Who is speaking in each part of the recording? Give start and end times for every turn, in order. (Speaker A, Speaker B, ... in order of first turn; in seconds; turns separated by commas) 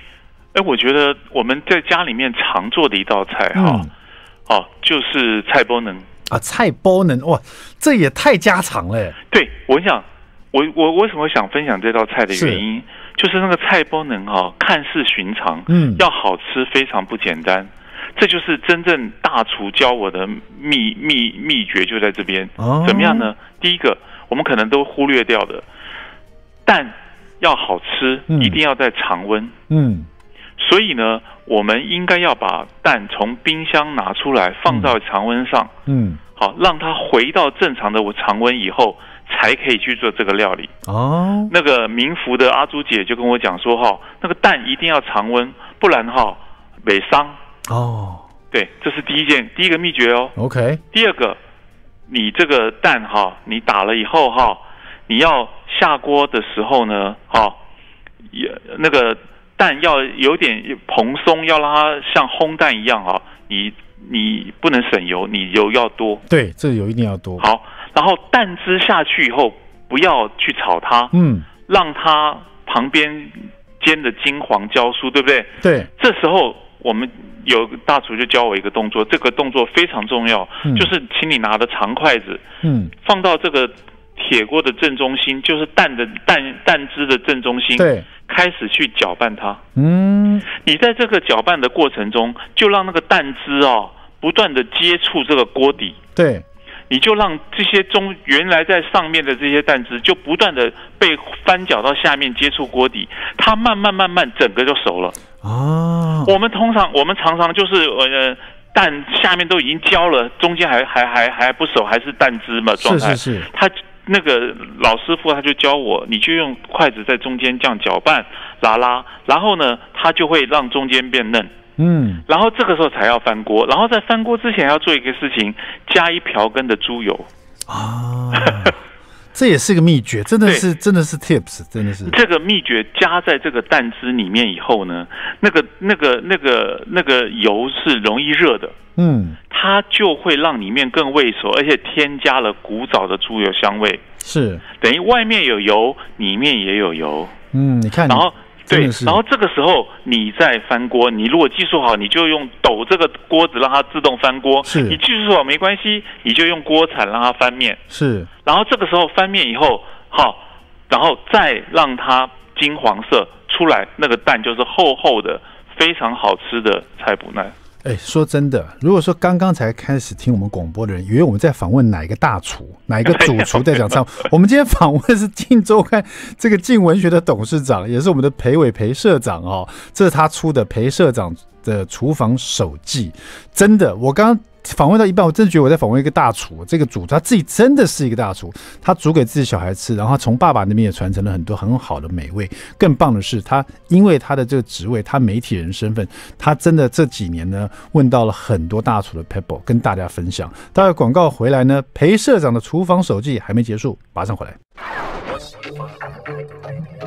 Speaker A: 0.5-3.9, Speaker B: 3.5-3.9, Speaker A: 4.5-6.0, Speaker B: 6.3-9.2, Speaker A: 9.3-25.6, Speaker B: 12.3-12.6, Speaker B: 15.7-16.0, Speaker B: 22.6-23.3, Speaker A: 26.6-29.5, Speaker B: 28.3-28.6, Speaker B: 29.7-30.1, Speaker A: 30.6-35.7, Speaker B: 34.7-34.9, Speaker B: 35.9-36.2, Speaker A: 36.4-40.7, Speaker B: 40.9-41.5, Speaker A: 41.5-47.4, Speaker B: 47.7-48.2, Speaker A: 48.5-50.3, Speaker B: 50.4-50.8, Speaker A: 50.9-51.4, Speaker A: 52.1-57.6, Speaker A: 58.3-66.2, Speaker B: 66.3-67.4, Speaker A: 67.4-71.1, Speaker B: 71.1-71.5, Speaker A: 71.7-82.4, Speaker B: 75.6-75.9, Speaker B: 80.6-80.9, Speaker B: 82.6-82.9, Speaker A: 83.0-89.6, Speaker B: 87.8-88.1, Speaker B: 89.8-90.5, Speaker A: 90.5-96.0, Speaker B: 96.2-96.4, Speaker A: 96.9-105.2, Speaker B: 105.4-106.3, Speaker A: 106.2-121.5, Speaker B: 112.8-113.5, Speaker B: 121.8-122.2, Speaker A: 122.3-127.3, Speaker B: 127.7-128.8, Speaker A: 128.3-128.7, Speaker B: 129.3-132.2, Speaker A: 132.0-138.7, Speaker B: 139.0-139.4, Speaker A: 139.5-144.0, Speaker B: 144.2-144.6, Speaker A: 144.8-147.3, Speaker B: 147.5-149.2, Speaker A: 148.1-157.8, Speaker B: 154.6-155.0, Speaker B: 157.9-158.3, Speaker A: 158.4-167.5, Speaker B: 167.8-204.6, Speaker A: 173.1-174.0